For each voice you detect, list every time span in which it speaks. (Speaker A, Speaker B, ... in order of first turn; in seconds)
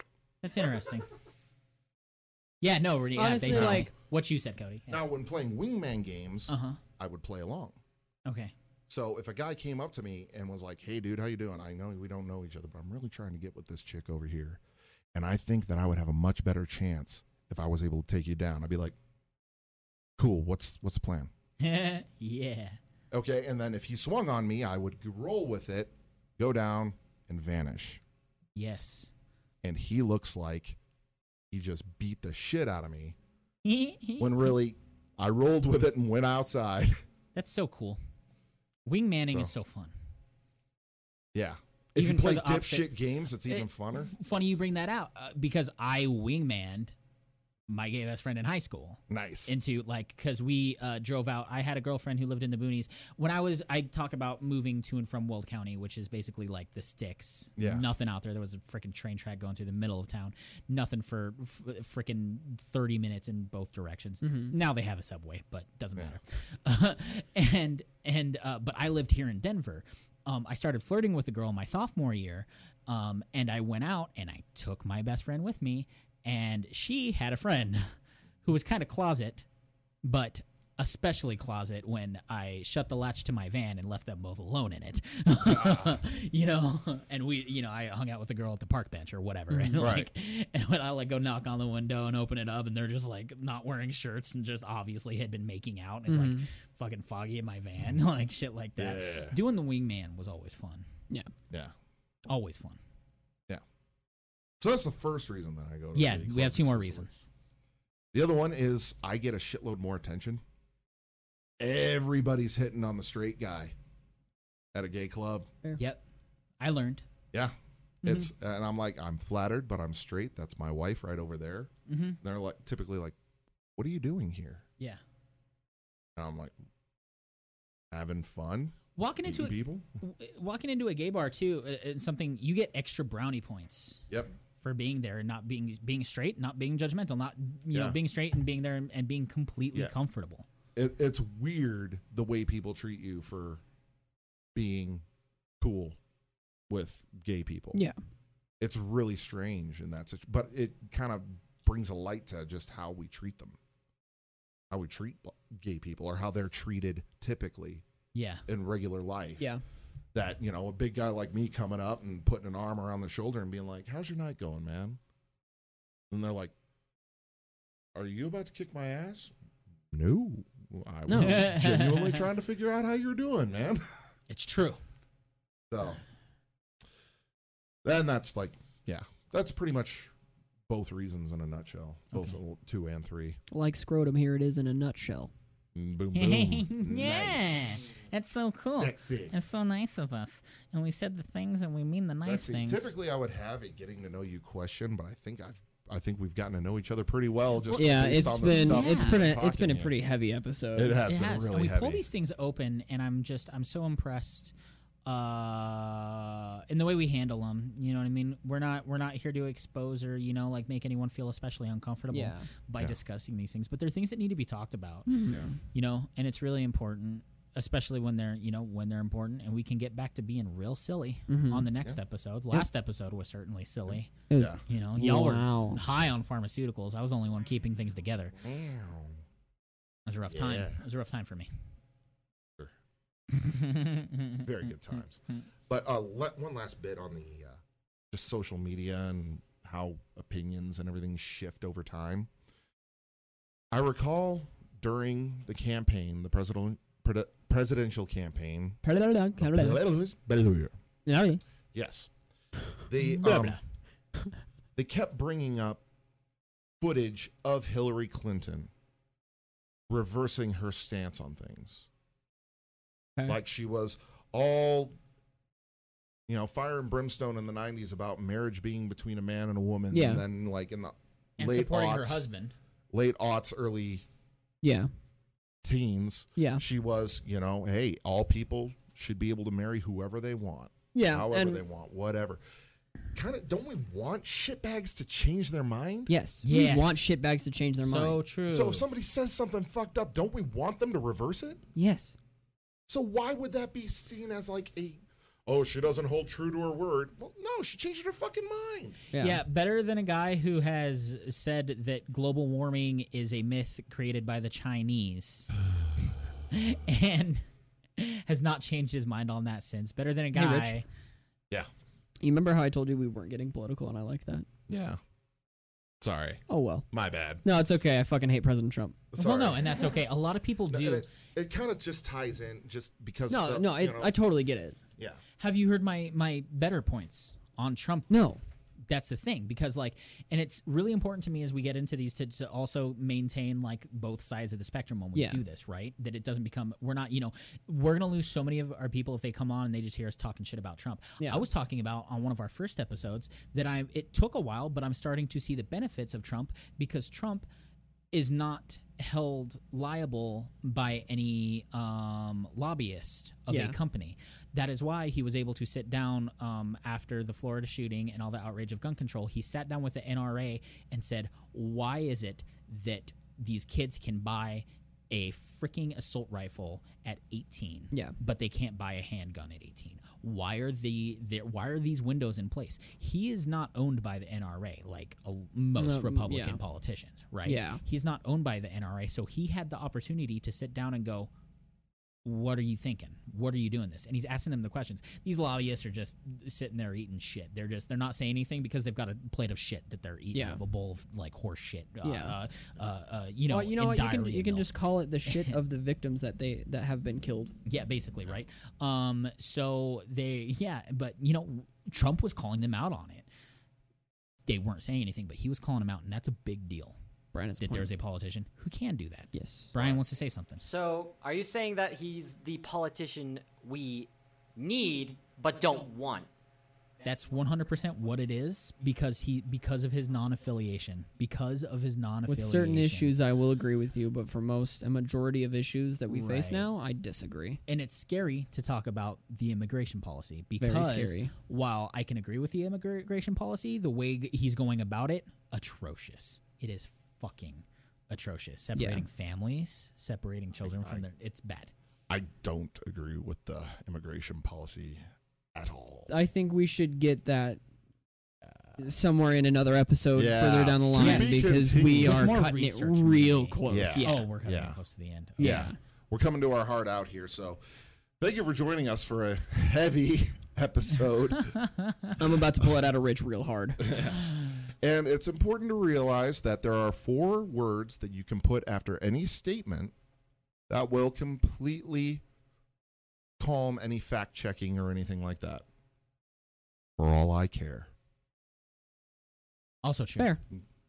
Speaker A: 0.4-1.1, 2.6-5.0, 6.5-6.8, 8.2-8.5, 21.6-22.8, 28.5-29.1, 33.6-34.5, 37.3-38.0, 38.9-39.9, 42.0-42.9, 43.5-46.9, 47.7-77.9, 78.4-79.5, 80.0-100.9, 102.3-102.8, 105.9-107.1, 115.8-116.0, 116.6-117.0, 121.9-122.2, 128.9-134.0, 134.6-140.4, 158.1-158.4, 171.1-172.2, 174.3-174.8, 186.1-192.9, 198.4-199.3, 201.0-204.5, 205.0-215.2, 215.7-224.1, 224.7-228.3, 230.1-231.5, 233.3-234.4, 253.0-253.6, 271.4-272.5, 286.4-287.0, 287.8-288.8, 299.1-305.5, 306.5-307.4, 308.0-310.8, 319.2-321.1, 325.4-328.1, 328.9-347.5, 348.1-381.3, 382.2-394.7, 395.3-395.6, 397.6-403.3, 404.5-406.9, 407.6-410.6, 417.0-423.1, 426.1-426.6, 427.7-441.7, 450.9-455.7, 461.6-462.1, 479.8-480.3
Speaker B: 3.1-3.9, 64.2-64.5, 89.5-89.8, 96.1-96.5, 171.1-171.4, 183.5-185.3, 197.7-201.0, 212.1-212.5, 215.1-215.6, 221.3-221.7, 224.3-225.8, 248.8-249.8, 251.1-251.4, 269.9-270.2, 274.6-274.9, 276.4-276.6, 280.9-281.6, 286.1-288.2, 291.7-292.1, 299.1-299.4, 310.3-310.8, 312.2-314.4, 316.5-316.9, 317.4-319.0, 323.3-324.8, 328.1-328.4, 335.1-335.4, 341.2-341.4, 353.5-353.8, 375.8-376.6, 377.4-377.8, 390.3-390.6, 392.0-392.4, 393.5-397.5, 407.3-407.9, 409.3-409.7, 422.3-427.6, 430.6-431.3, 438.8-439.0, 446.1-447.6, 448.8-454.3, 455.4-455.7, 462.1-463.9
Speaker C: 3.4-3.9, 4.9-7.8, 8.9-14.6, 15.1-18.9, 20.2-21.3, 23.1-28.0, 29.6-30.8, 31.5-33.1, 34.2-37.0, 41.3-44.1, 49.1-49.6, 57.6-57.9, 85.4-86.0, 89.8-90.1, 98.8-99.4, 104.6-107.2, 108.1-110.4, 111.6-113.7, 114.7-115.5, 117.3-123.2, 123.8-124.7, 126.2-126.5, 127.9-129.8, 140.8-143.6, 144.5-145.0, 145.6-146.0, 146.7-147.8, 148.6-153.6, 154.7-157.8, 158.5-159.5, 160.1-165.0, 166.1-166.5, 167.9-169.3, 169.9-173.8, 175.7-176.0, 177.8-180.1, 180.7-183.4, 185.7-187.9, 188.8-189.3, 192.2-199.9, 200.8-202.0, 228.4-229.2, 230.3-230.8, 234.3-237.6, 238.1-242.3, 243.7-248.8, 249.4-250.7, 251.7-252.1, 252.8-253.6, 254.8-255.8, 256.8-258.7, 259.9-261.9, 263.2-264.9, 266.3-272.2, 272.9-274.0, 275.6-282.4, 283.1-286.1, 288.5-291.6, 292.9-299.0, 314.7-315.0, 316.0-317.4, 319.1-319.8, 320.7-324.1, 409.7-410.0, 440.6-441.0, 442.1-445.0, 445.5-446.1, 450.1-452.4, 453.7-454.8, 455.4-457.6, 458.2-461.6, 463.8-469.9, 470.7-472.2, 473.4-475.6, 477.0-477.9
Speaker D: 410.6-416.3